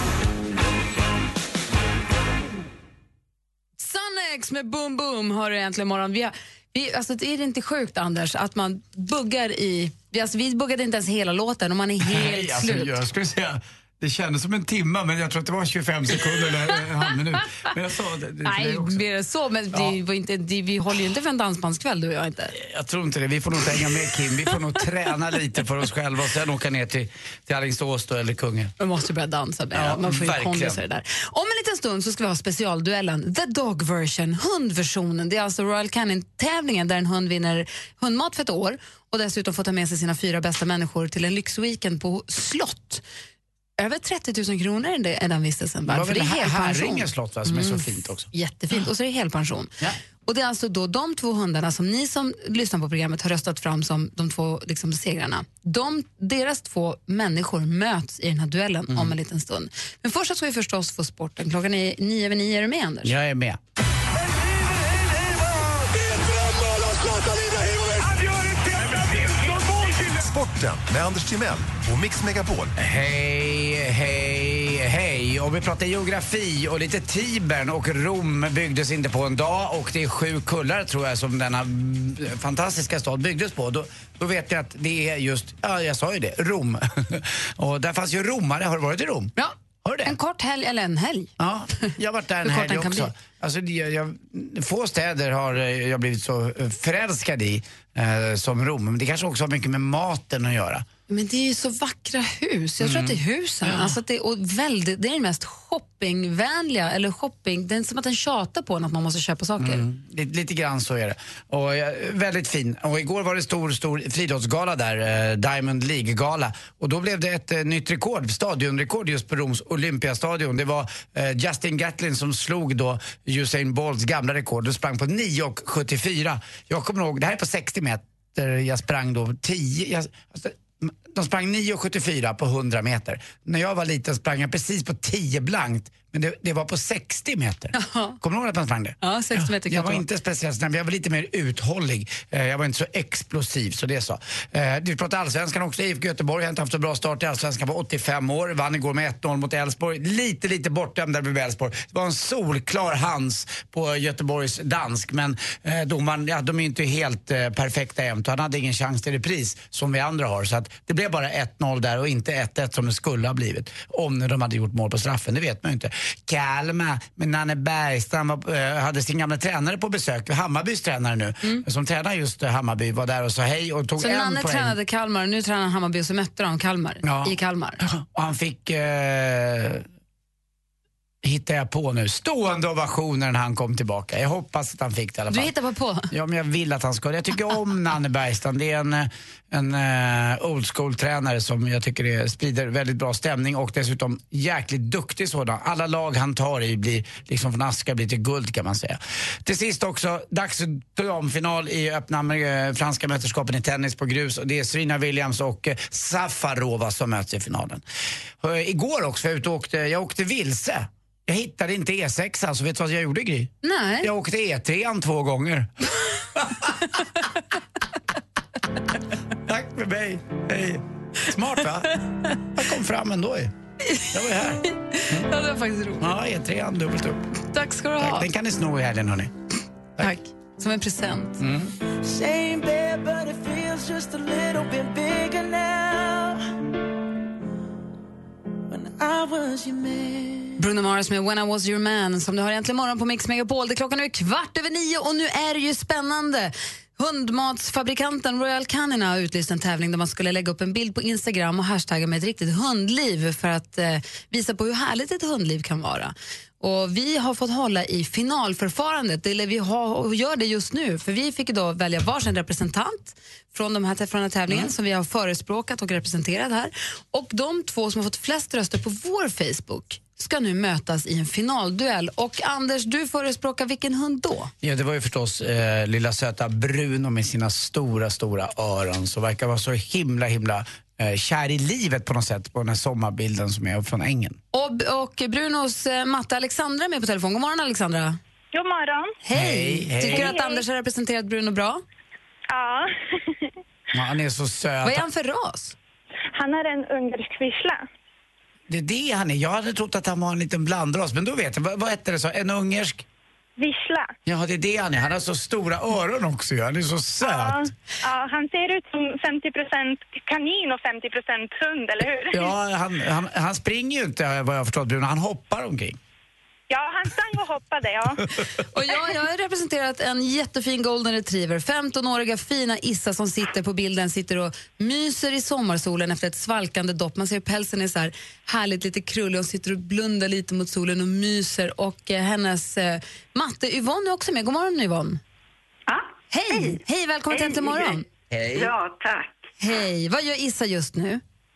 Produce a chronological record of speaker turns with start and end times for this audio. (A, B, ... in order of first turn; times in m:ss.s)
0:03.8-0:12.9 A
0:12.0-0:19.0 B
0:18.4-0:22.6 A
0:22.5-0:28.7 B
0:28.8-0:43.0 A
0:29.7-0:30.8 B
0:43.8-0:49.7 A
0:45.9-0:48.3 B
0:50.3-1:03.2 A
0:58.9-0:59.2 B
1:03.0-1:03.6 B
1:10.1-1:12.7 C
1:12.8-1:29.3 B
1:29.8-1:30.2 B
1:30.0-1:31.3 A
1:31.4-1:40.8 B
1:32.4-1:33.1 A
1:41.1-1:49.8 A
1:42.8-1:44.0 B
1:49.6-2:54.8 B
2:17.7-2:18.2 A
2:19.0-2:20.0 A
2:54.0-2:57.8 A
2:57.0-2:59.8 B
3:01.2-3:05.5 B
3:05.3-3:06.1 A
3:06.1-3:27.8 B
3:28.4-3:37.0 B
3:33.6-3:34.1 A
3:39.5-3:42.0 B
3:42.6-3:43.5 B
3:44.1-3:45.2 B
3:44.6-3:46.0 A
3:46.0-3:47.2 B
3:47.5-3:48.3 A
3:48.0-3:49.3 B
3:50.0-3:51.4 A
3:51.4-3:51.7 B
3:52.0-3:56.5 D
3:58.7-4:00.6 D
4:00.6-4:34.5 A
4:34.6-4:44.4 B
4:44.5-4:48.2 A
4:48.6-4:49.0 E
4:49.2-4:51.8 A
4:49.3-4:50.4 B
4:53.9-4:55.1 B
4:54.8-4:55.8 A
4:56.4-4:57.8 E
4:58.7-5:03.0 B
5:03.6-5:04.0 E
5:04.3-5:07.7 B
5:08.1-5:12.2 E
5:12.3-5:16.0 B
5:16.7-5:18.2 E
5:18.7-5:35.2 A
5:35.9-5:38.0 F
5:36.3-5:38.0 A
5:38.3-5:38.7 B
5:38.5-5:39.5 F
5:39.6-5:41.2 A